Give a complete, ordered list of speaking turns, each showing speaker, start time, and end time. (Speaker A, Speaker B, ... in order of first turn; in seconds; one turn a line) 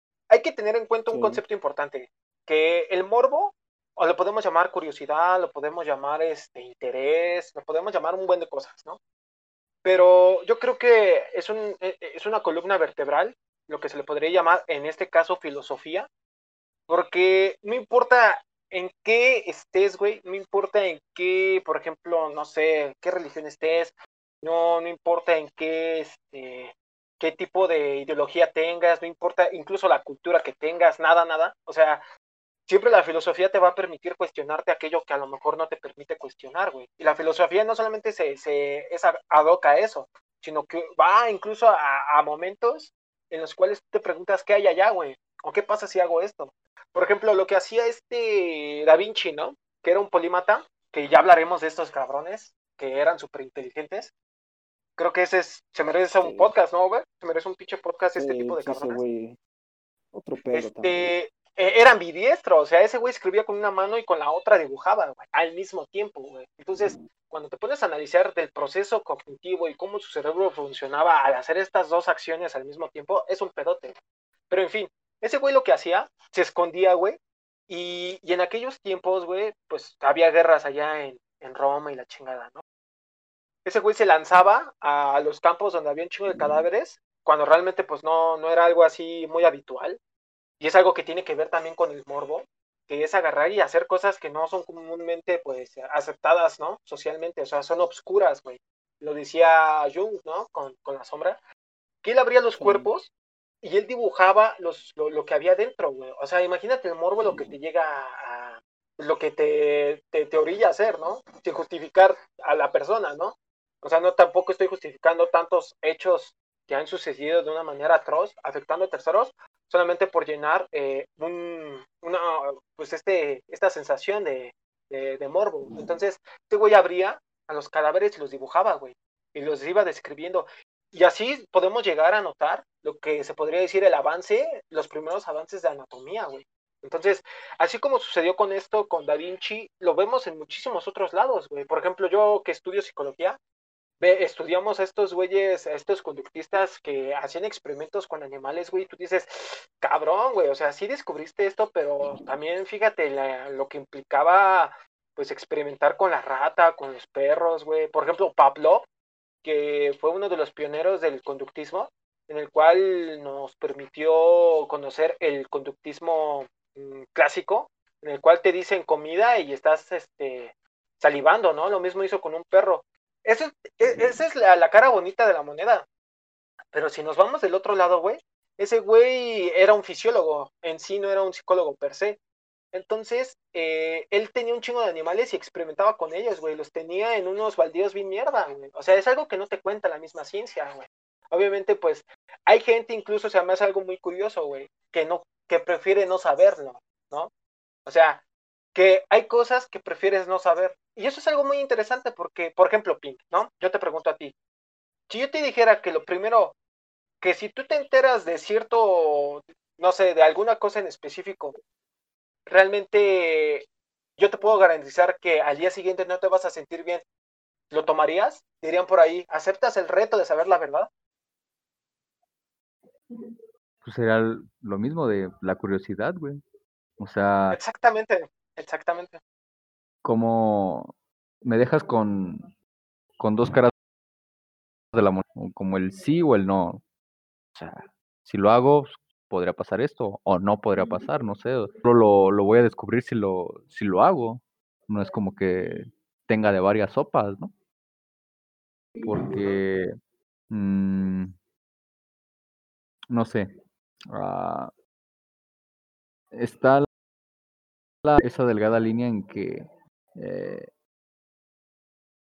Speaker A: 0.3-9.0
Speaker B: 1.1-1.4
Speaker A: 9.8-16.1
Speaker A: 16.9-32.0
Speaker A: 32.7-54.1
Speaker A: 55.0-59.0
Speaker B: 56.2-56.5
Speaker B: 58.2-59.4
Speaker B: 60.1-61.1
Speaker A: 60.5-74.0
Speaker B: 66.8-67.1
Speaker A: 74.5-82.6
Speaker A: 83.7-90.0
Speaker B: 86.3-86.7
Speaker A: 90.6-101.4
Speaker A: 102.0-103.1
Speaker B: 102.6-102.9
Speaker A: 103.6-143.4
Speaker B: 107.2-107.5
Speaker A: 144.0-158.9
Speaker A: 159.4-175.9
Speaker A: 176.7-182.2
Speaker A: 182.7-197.3
Speaker A: 197.9-198.2
Speaker A: 198.7-204.3
Speaker A: 205.1-206.6
Speaker A: 207.2-211.6
Speaker A: 212.5-217.1
Speaker A: 217.7-220.9
Speaker C: 223.8-226.4
Speaker C: 227.0-227.6
Speaker A: 227.5-229.2
Speaker C: 230.0-232.5
Speaker C: 233.2-233.7
Speaker C: 234.9-236.8
Speaker C: 237.6-247.6
Speaker C: 249.0-249.9
Speaker C: 250.5-251.4
Speaker C: 253.1-253.5
Speaker C: 254.1-254.7
Speaker C: 256.3-256.9
Speaker C: 258.1-260.7